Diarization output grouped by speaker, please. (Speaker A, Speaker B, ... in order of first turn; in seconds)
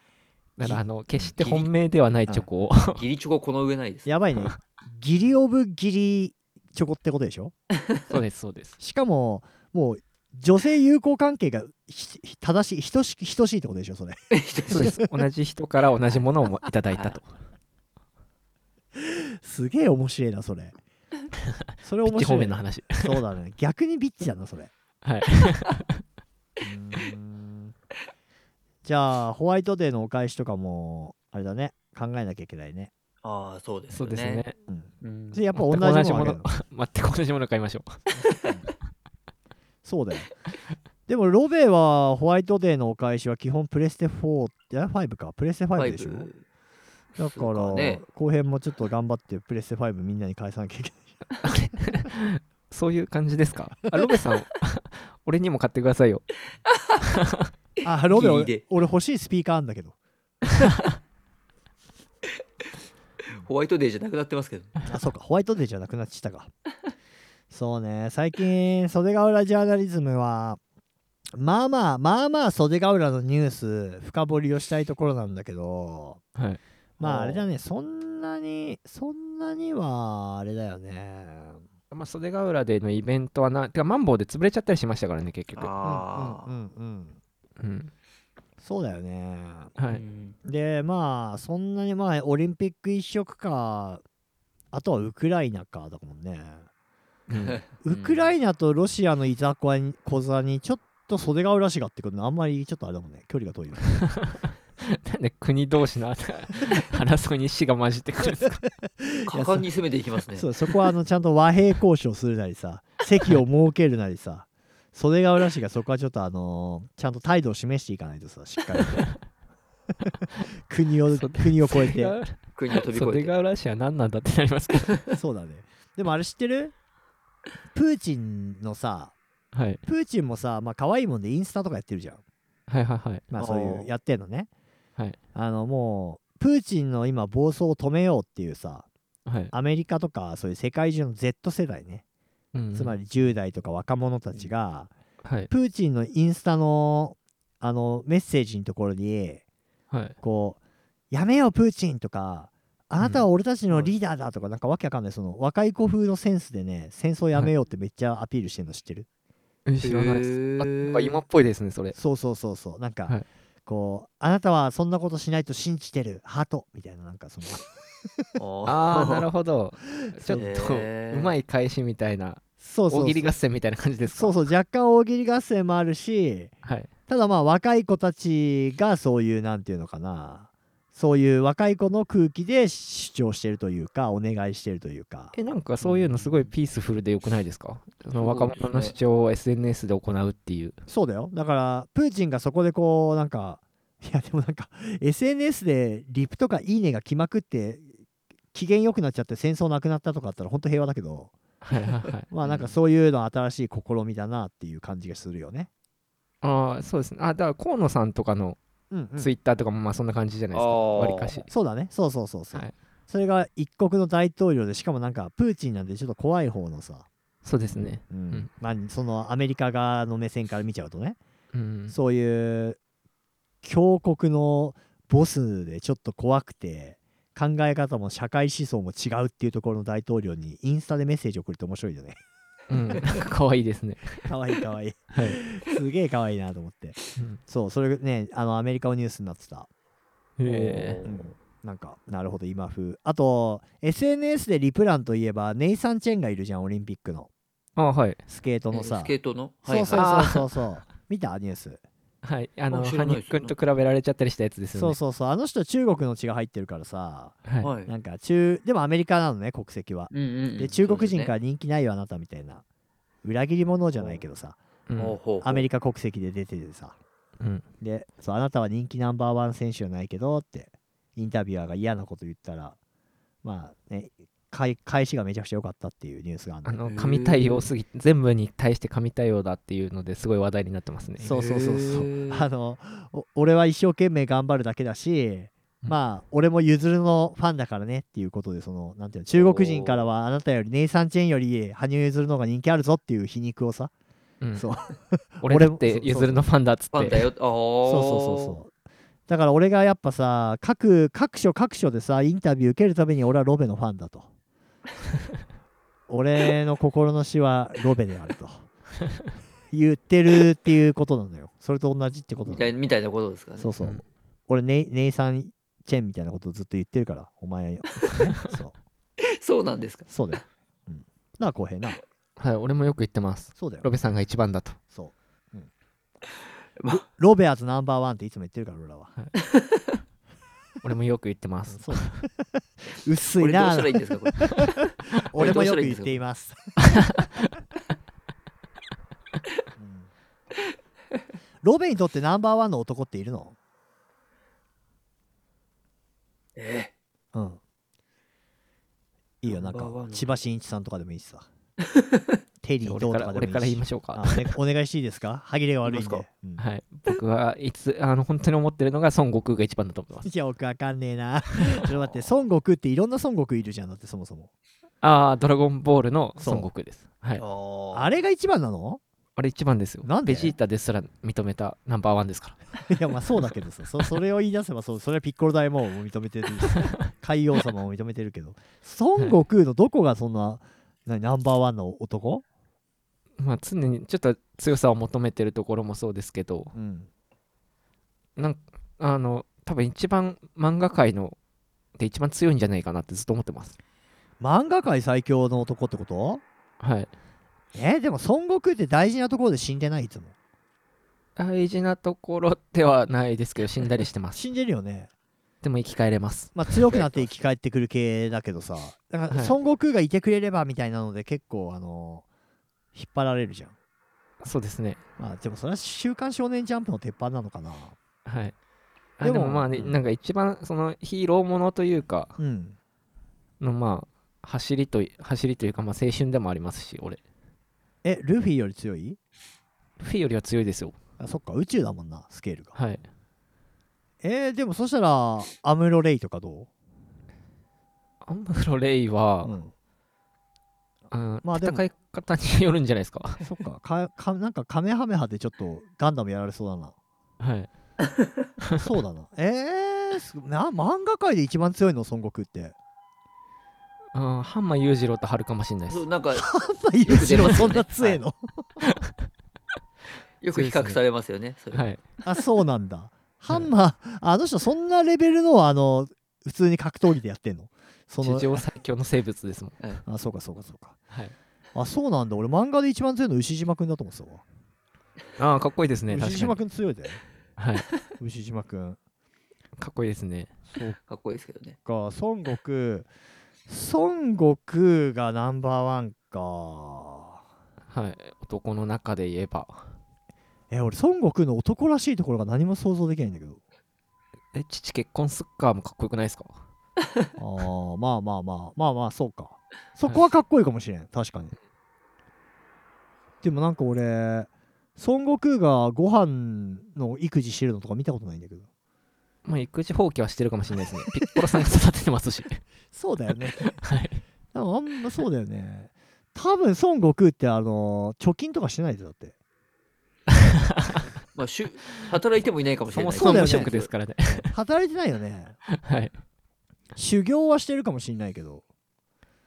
Speaker A: 0.6-3.0, 8.1-8.8, 14.7-17.3, 22.0-23.2, 25.0-25.9, 33.9-34.6, 35.5-38.0, 51.4-56.3, 76.3-76.6, 81.9-85.7, 87.6-87.9, 89.8-90.0, 97.3-97.6, 104.2-108.6, 121.1-125.0, 129.5-129.8, 132.7-133.2, 139.3-139.5, 142.5-142.9, 145.2-145.5, 153.0-153.3, 159.7-162.0, 168.7-174.5, 176.6-176.9, 185.3-190.8, 201.6-202.3, 206.4-208.6, 209.2-211.5, 217.4-218.5, 221.5-222.0, 232.7-234.2, 235.1-235.4, 240.4-241.0, 247.8-248.2, 249.9-250.5, 252.2-255.0, 264.9-265.2, 276.7-281.3, 294.4-294.7, 295.4-297.3, 322.4-324.8, 330.8-332.2, 352.8-354.6, 356.6-360.3, 365.0-367.4, 369.4-372.6, 383.4-386.7, 388.4-391.4, 392.0-393.8, 396.8-397.1, 401.4-404.4, 405.6-407.2, 409.3-409.6, 414.4-415.0, 418.2-418.6, 419.2-422.4, 423.6-427.2, 430.0-430.9, 432.8-433.0, 438.2-439.6, 441.1-443.4, 447.4-447.7, 454.1-456.1, 460.5-461.0, 461.7-462.0, 468.2-469.8, 475.4-476.6, 477.6-477.9, 479.8-480.5, 487.9-489.9, 494.5-496.6, 509.5-512.6, 513.6-514.2, 520.8-521.0, 522.9-524.5, 525.8-526.1
Speaker B: 0.6-1.3, 4.0-7.5, 8.8-15.0, 19.0-20.8, 21.8-24.7, 26.6-27.7, 28.8-32.9, 34.7-36.5, 39.8-40.3, 41.1-46.3, 47.2-51.2, 57.8-60.0, 64.9-66.5, 67.5-70.6, 71.4-76.2, 77.0-81.6, 85.8-87.2, 88.6-89.8, 90.5-94.0, 94.7-96.7, 97.8-104.1, 109.0-109.6, 110.3-119.1, 120.7-122.2, 125.1-126.7, 127.7-129.2, 129.9-132.2, 133.3-134.5, 135.3-138.9, 139.5-142.0, 142.7-144.9, 145.5-149.4, 150.2-150.6, 151.1-159.1, 161.9-168.3, 170.2-170.4, 172.6-173.3, 174.1-176.5, 177.1-185.3, 190.9-197.9, 198.5-201.3, 202.3-205.7, 208.9-209.3, 211.5-217.1, 218.0-221.2, 221.9-222.8, 223.6-232.2, 234.2-239.7, 241.1-247.3, 248.3-249.1, 249.7-251.8, 254.7-262.6, 263.2-264.6, 265.4-267.0, 267.8-272.8, 273.4-276.8, 281.2-293.9, 294.5-296.4, 297.9-298.7, 299.3-304.3, 306.1-308.6, 309.7-312.7, 313.6-318.7, 320.1-322.0, 323.6-323.9, 324.9-325.7, 326.9-329.1, 331.7-336.8, 339.8-340.1, 341.6-343.6, 347.3-347.6, 349.4-351.5, 352.6-356.6, 360.2-364.5, 366.4-366.7, 367.9-369.0, 370.0-370.6, 372.9-382.4, 386.7-387.1, 394.4-396.4, 397.7-400.3, 404.3-405.1, 406.6-412.3, 412.9-413.8, 415.2-418.0, 419.2-420.0, 422.4-422.8, 428.0-429.2, 431.2-432.8, 434.2-436.7, 439.4-439.7, 441.4-441.8, 443.4-446.9, 448.8-452.8, 456.3-458.7, 462.2-468.6, 470.1-471.0, 471.8-474.4, 476.1-477.2, 478.2-479.0, 480.7-481.0, 481.9-483.1, 483.7-487.4, 490.7-493.6, 497.4-501.5, 503.4-508.7, 512.9-513.8, 514.5-519.4, 523.2-523.7, 524.5-525.6, 527.0-528.6
Speaker C: 1.4-1.7, 3.0-4.1, 14.3-15.0, 33.2-34.4, 35.0-35.4, 38.2-38.6, 45.8-46.4, 47.4-48.0, 58.1-58.6, 63.4-64.7, 77.0-77.5, 85.6-86.5, 89.9-90.4, 97.5-98.3, 109.3-110.5, 122.6-123.3, 133.4-133.9, 153.7-153.9, 159.8-161.2, 168.4-169.3, 170.3-171.4, 185.8-186.5, 188.2-188.9, 202.4-202.8, 210.5-211.5, 240.4-241.3, 248.7-250.1, 252.7-253.6, 257.6-257.9, 260.1-261.4, 263.9-264.2, 265.0-265.6, 276.9-277.7, 281.2-282.5, 289.3-290.1, 296.9-298.6, 312.5-313.8, 319.4-320.1, 329.4-329.9, 333.4-336.1, 346.6-346.9, 349.5-350.4, 351.9-352.4, 355.9-356.2, 367.4-368.2, 407.0-407.2, 455.9-456.5, 457.0-458.2, 460.4-461.9, 481.1-481.8, 521.4-523.9